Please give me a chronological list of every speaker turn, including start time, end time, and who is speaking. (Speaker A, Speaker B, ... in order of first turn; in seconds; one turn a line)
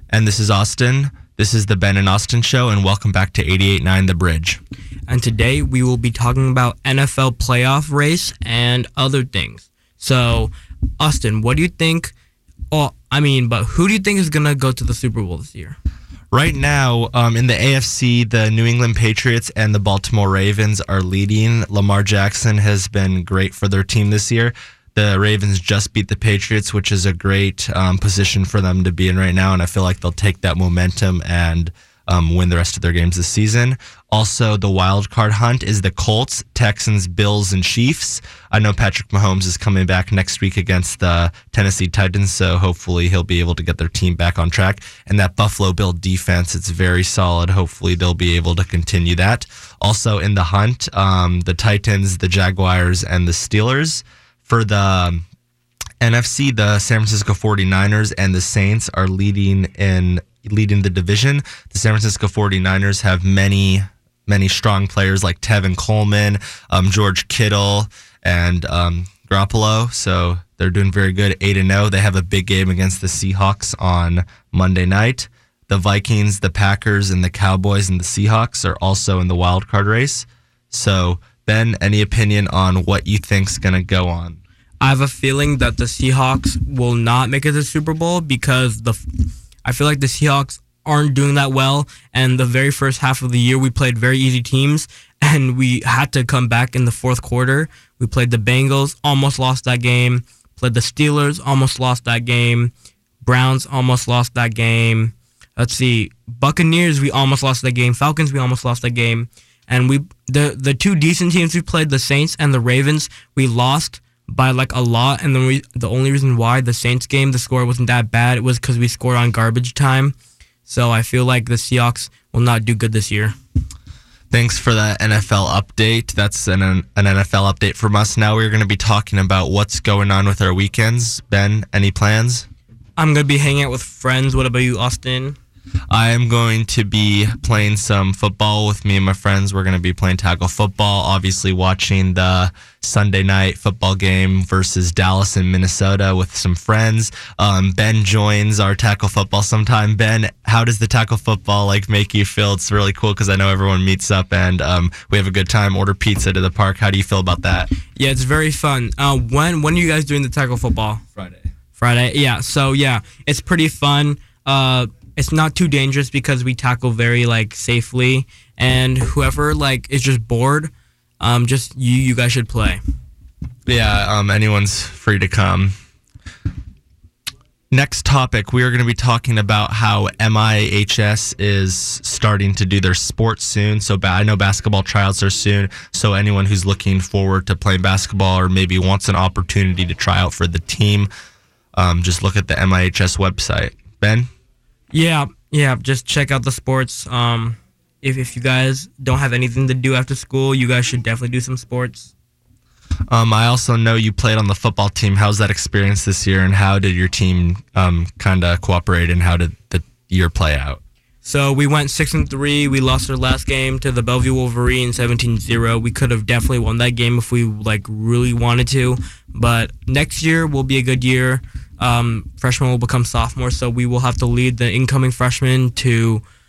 Speaker A: 0.1-4.6
Speaker B: 5.1-12.1
Speaker B: 12.7-15.8
Speaker A: 16.3-55.2
Speaker A: 56.0-84.4
Speaker B: 84.8-89.0
Speaker B: 89.6-120.1
Speaker B: 120.7-123.3
Speaker A: 124.3-132.5
Speaker B: 133.0-135.4
Speaker A: 135.9-157.7
Speaker B: 157.9-161.0
Speaker B: 161.8-172.8
Speaker A: 173.7-175.7
Speaker A: 177.7-191.1
Speaker A: 191.8-194.2
Speaker B: 194.9-202.1
Speaker A: 203.1-210.8
Speaker B: 211.2-226.2